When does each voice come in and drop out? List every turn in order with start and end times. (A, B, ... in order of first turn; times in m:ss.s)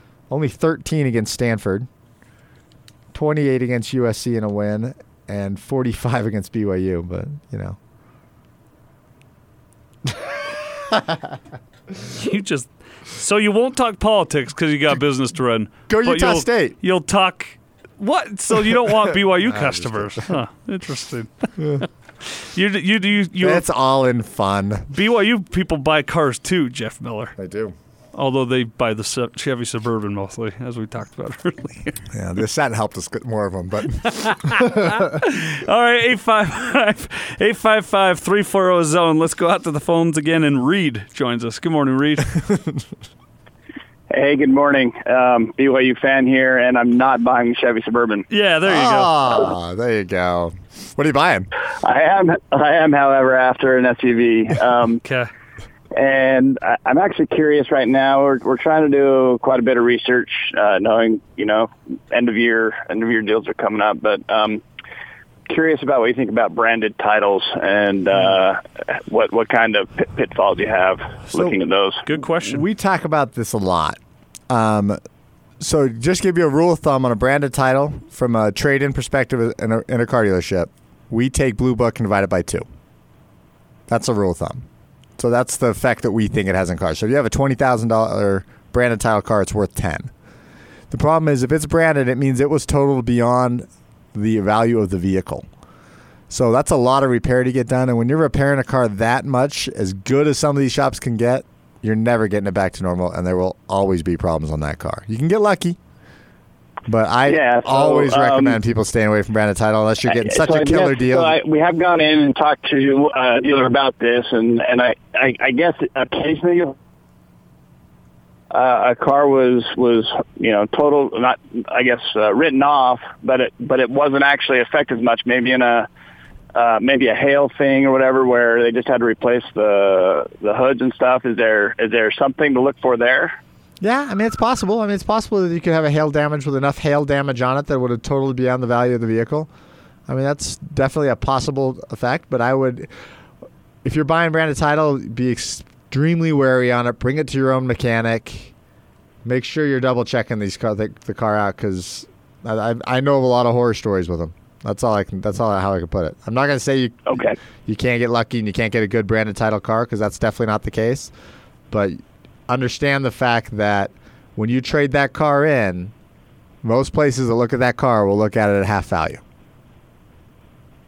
0:00.3-0:01.9 A
0:03.1-0:07.8 A
0:12.1-0:23.6 B
0:15.9-0:16.8 A
0:18.8-0:20.3 A
0:23.4-0:24.9 A
0:24.9-0:27.3 B
0:27.4-0:27.8 A
0:28.1-0:32.0 B
0:32.1-0:35.2 A
0:34.0-0:42.4 B
0:42.4-0:42.8 A
0:44.1-0:48.2 C
0:48.3-0:49.5 B
0:48.6-0:51.5 A
0:51.8-0:55.0 C
0:55.0-0:55.3 B
0:55.9-1:04.6 C
1:05.5-1:12.0 C
1:12.0-1:12.6 B
1:12.3-1:14.0 A
1:14.5-1:15.0 A
1:15.6-1:22.6 A
1:23.9-1:24.6 A
1:25.2-1:30.1 A
1:30.9-1:35.4 A
1:36.3-1:45.8 A
1:46.9-1:51.4 A
1:47.2-1:48.6 C
1:50.0-1:56.7 C
1:58.5-2:05.9 C
2:06.5-2:13.4 C
2:13.8-2:19.5 A
2:20.1-2:22.9 A
2:23.8-2:28.5 A
2:29.2-2:41.1 A
2:37.0-2:37.4 C
2:41.7-2:45.9 A
2:46.6-2:49.2 A